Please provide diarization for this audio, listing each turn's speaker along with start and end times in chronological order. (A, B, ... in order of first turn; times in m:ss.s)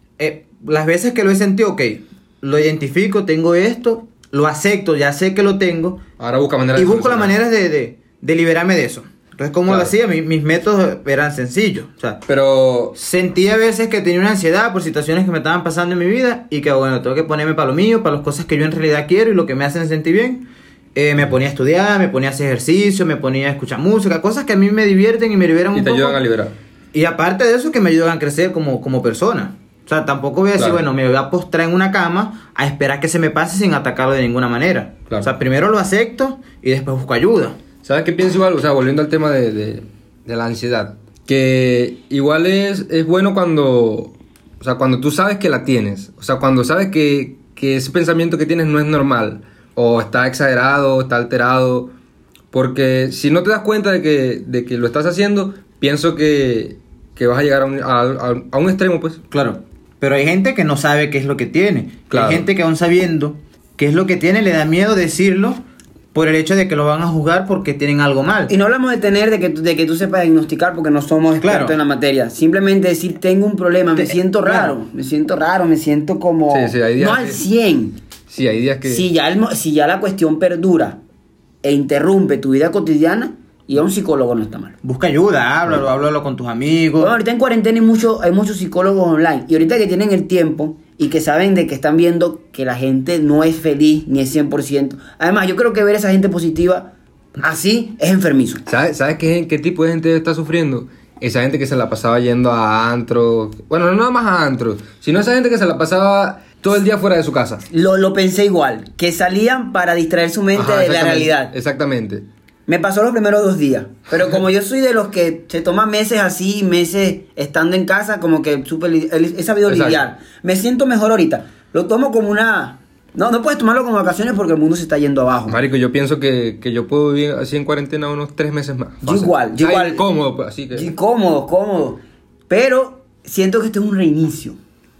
0:00.2-0:06.0 A
0:06.2-0:07.3 B
0:06.8-0:12.2 A
0:09.7-0:09.9 B
0:12.3-0:12.9 B
0:12.9-0:26.2 A
0:25.7-0:26.5 B
0:26.9-0:37.6 A
0:37.8-0:51.9 B
0:52.5-0:59.2 B
0:59.3-1:05.6 A
1:02.1-1:02.4 B
1:06.1-1:08.5 A
1:08.5-1:18.0 C
1:11.4-1:11.8 A
1:14.0-1:14.8 A
1:16.5-1:17.4 B
1:18.3-1:19.1 B
1:18.8-1:21.0 C
1:21.6-1:24.7 C
1:24.8-1:27.2 A
1:27.0-1:38.6 C
1:38.7-1:47.6 B
1:47.7-1:51.5 C
1:50.5-1:52.2 B
1:52.7-2:05.6 C
1:59.7-2:00.0 B
2:05.5-2:10.9 B
2:09.0-2:10.0 C
2:10.7-2:14.6 C